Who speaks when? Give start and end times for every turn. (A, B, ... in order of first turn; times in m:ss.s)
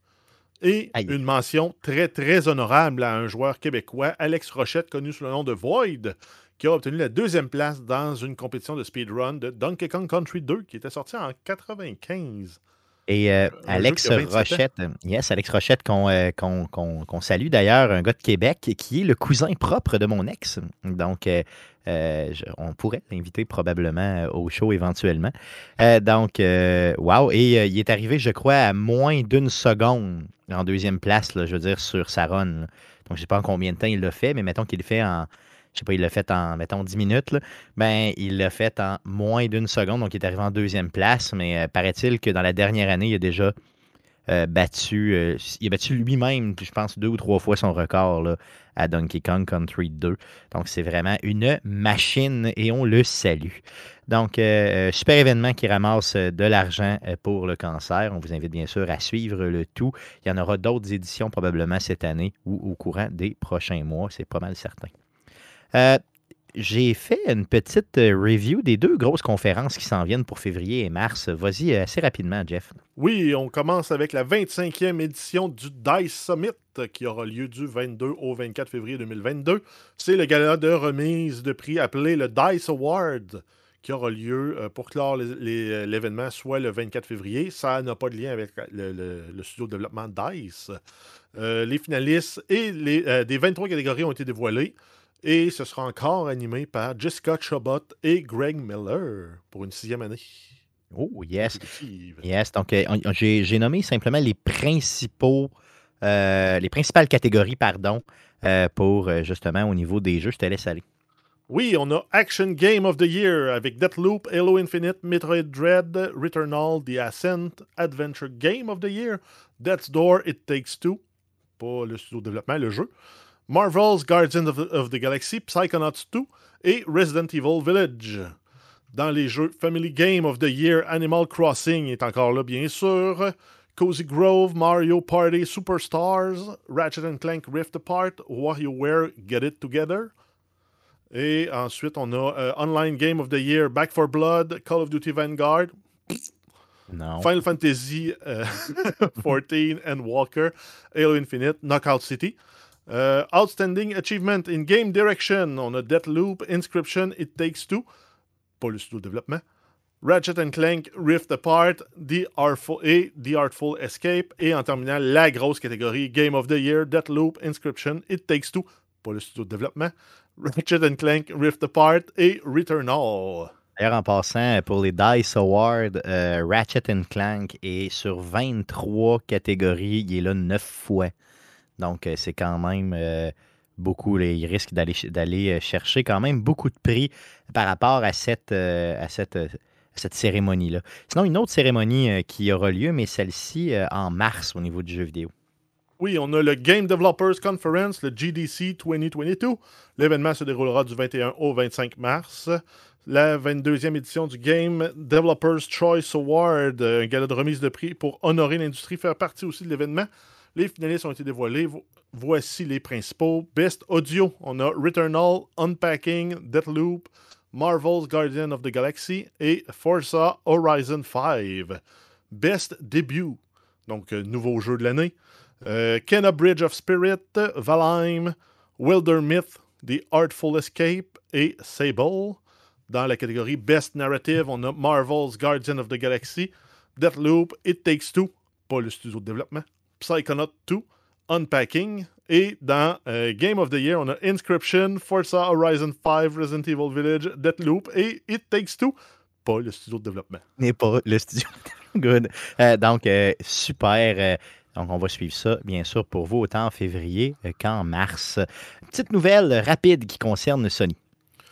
0:00.6-0:12.6 A
0:13.1-0:43.5 B
0:13.6-0:14.6 A
0:44.3-1:04.9 B
1:05.7-1:06.0 B
1:06.5-1:12.8 B
1:13.0-1:30.8 A
1:31.3-1:40.5 A
1:40.9-1:41.6 B
1:41.4-1:42.2 A
1:42.2-1:50.8 B
1:51.5-2:01.0 A
2:01.6-2:02.9 A
2:03.5-2:08.3 A
2:08.9-2:20.1 A
2:21.1-2:26.3 A
2:26.9-2:27.3 B
2:27.2-2:32.4 A
2:32.9-2:37.9 A
2:38.6-2:39.4 A
2:40.0-2:53.5 A
2:53.8-3:01.1 B
3:01.8-3:15.3 B
3:16.0-3:41.8 A
3:42.3-4:10.4 A
4:10.6-4:21.0 B